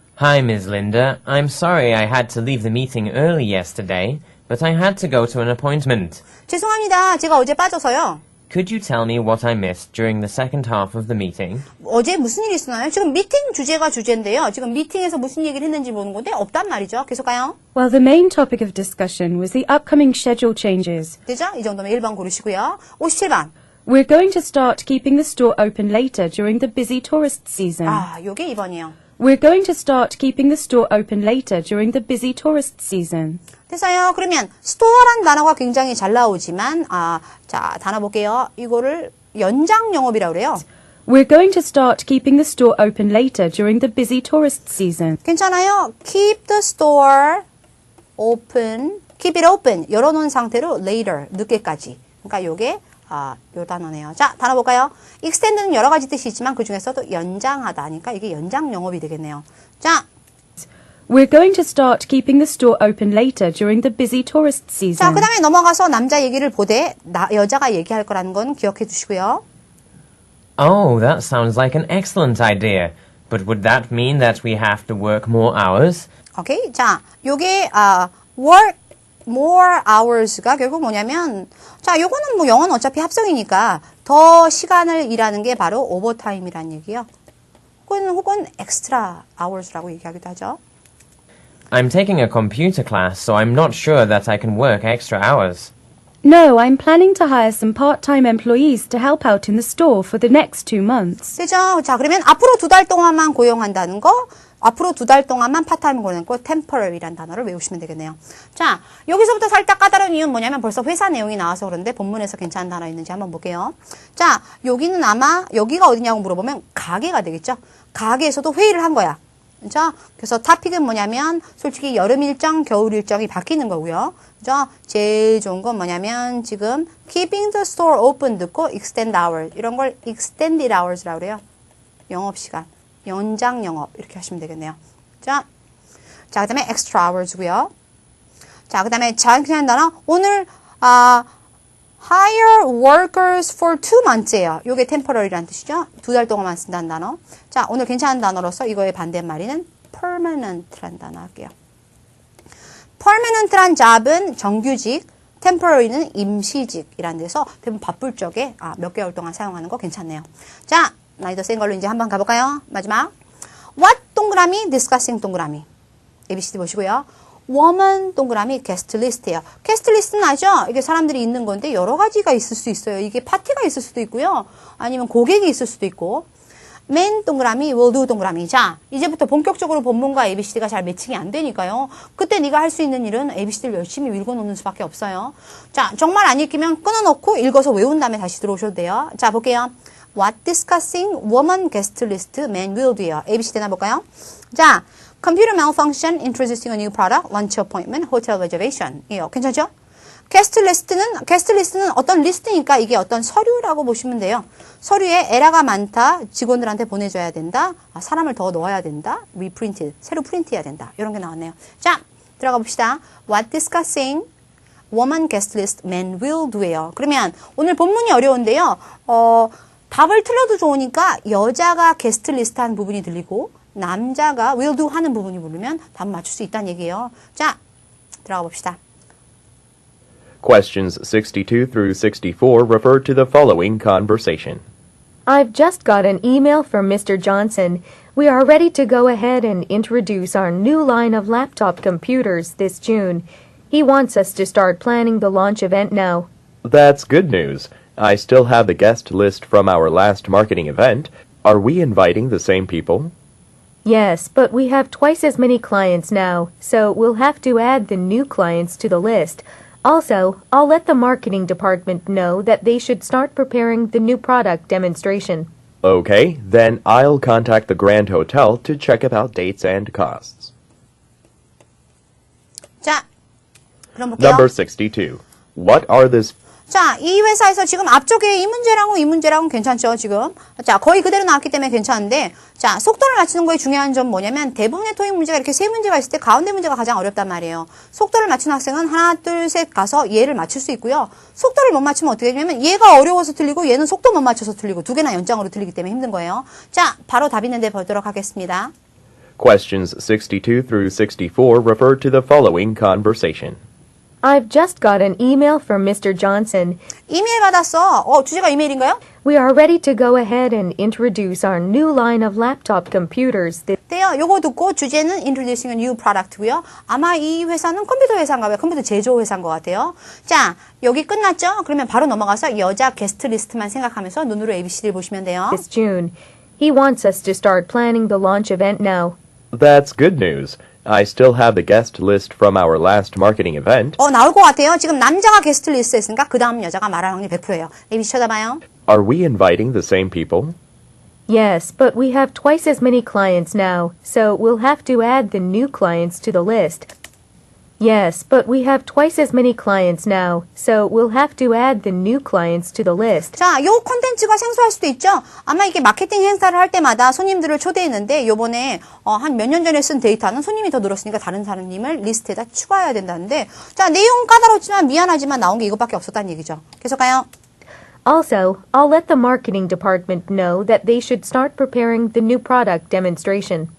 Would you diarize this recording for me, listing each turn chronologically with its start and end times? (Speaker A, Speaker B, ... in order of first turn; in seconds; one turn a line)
Speaker A: 0.2-6.2
Speaker B: 6.5-8.2
Speaker A: 8.5-11.7
Speaker B: 11.8-17.6
Speaker C: 17.8-21.2
Speaker B: 21.3-23.5
Speaker C: 23.9-28.0
Speaker B: 27.9-28.9
Speaker C: 29.2-33.4
Speaker B: 33.7-40.6
Speaker C: 41.1-45.2
Speaker B: 45.2-47.4
Speaker B: 48.2-60.0
Speaker C: 61.1-65.3
Speaker B: 65.0-69.4
Speaker A: 70.6-76.1
Speaker B: 76.4-78.8
Speaker B: 79.3-87.1
Speaker B: 87.9-90.6
Speaker A: 91.7-95.7
Speaker C: 96.2-101.3
Speaker B: 101.4-131.4
Speaker B: 132.1-135.5
Speaker B: 136.3-137.7
Speaker B: 138.7-141.3
Speaker B: 142.0-151.5
Speaker B: 153.0-163.1
Speaker B: 163.8-165.7
Speaker B: 166.3-176.3
Speaker B: 176.9-199.7
Speaker B: 200.3-214.3
Speaker B: 214.9-227.6
Speaker B: 228.3-228.8
Speaker D: 230.4-234.6
Speaker E: 235.3-246.3
Speaker D: 246.6-253.1
Speaker E: 253.8-265.5
Speaker D: 265.8-270.5
Speaker B: 273.9-274.5
Speaker D: 274.2-276.4
Speaker B: 276.7-298.7
Speaker D: 299.4-303.6
Speaker E: 304.2-306.8
Speaker B: 307.1-309.0
Speaker E: 309.2-313.8
Speaker B: 313.9-325.6
Speaker E: 325.5-329.2
Speaker D: 329.5-334.0
Speaker B: 334.0-338.6
Speaker D: 338.9-340.6
Speaker E: 341.3-346.9
Speaker E: 347.8-353.3
Speaker B: 353.3-367.3
Speaker E: 368.1-373.7